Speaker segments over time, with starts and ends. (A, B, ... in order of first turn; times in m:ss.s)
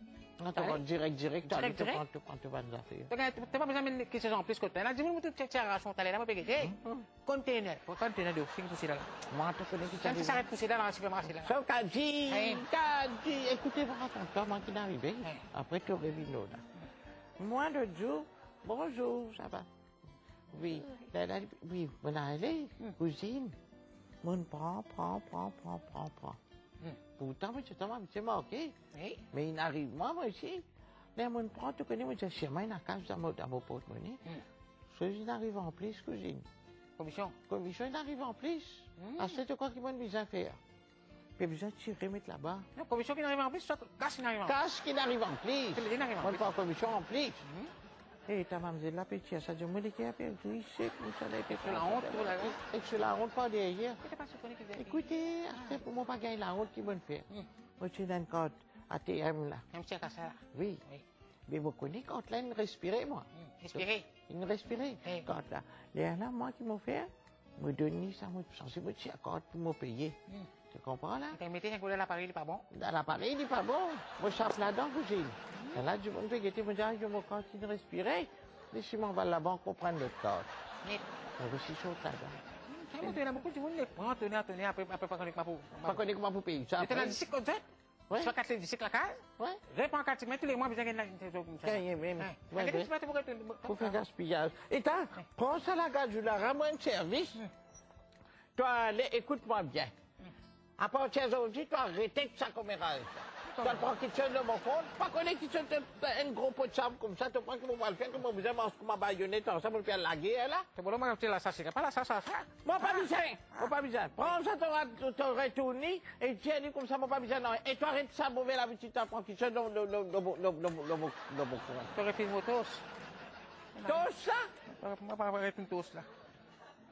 0:00.4-0:03.1 A
0:00.6-0:00.8 B
0:01.5-0:02.0 B
0:03.1-0:09.2 B
0:06.6-0:07.1 A
0:09.3-0:10.4 A
0:09.9-0:11.6 B
0:11.3-0:16.6 A
0:12.3-0:12.7 B
0:17.4-0:19.7 A
0:20.5-0:23.6 A
0:24.2-0:26.4 A
0:27.2-0:28.7 A
0:28.9-0:29.2 B
0:29.3-0:30.7 A
0:31.2-0:34.2 A
0:34.9-0:36.5 A
0:37.0-0:37.4 B
0:37.5-0:40.6 A
0:39.0-0:39.4 B
0:41.4-0:42.7 A
0:42.8-0:44.6 B
0:44.4-0:47.4 A
0:45.8-0:46.5 B
0:47.4-0:47.7 B
0:48.3-0:54.0 A
0:51.5-0:52.6 B
0:54.0-0:55.0 B
0:54.7-0:57.3 A
0:57.8-0:59.7 A
0:59.7-1:01.0 B
1:00.5-1:00.8 A
1:01.5-1:10.2 A
1:03.4-1:04.1 B
1:05.0-1:05.3 B
1:10.7-1:11.4 A
1:11.3-1:12.6 B
1:12.7-1:20.5 A
1:15.5-1:15.8 B
1:21.4-1:22.4 A
1:22.7-1:26.0 B
1:25.8-1:27.2 A
1:26.8-1:34.0 B
1:28.1-1:28.4 A
1:31.6-1:32.9 A
1:33.7-1:37.4 A
1:38.6-1:39.9 A
1:40.8-1:50.7 A
1:43.5-1:43.9 B
1:50.8-1:53.7 B
1:52.6-2:01.9 A
2:02.0-2:02.9 B
2:03.8-2:04.1 B
2:03.8-2:04.5 A
2:04.7-2:06.1 B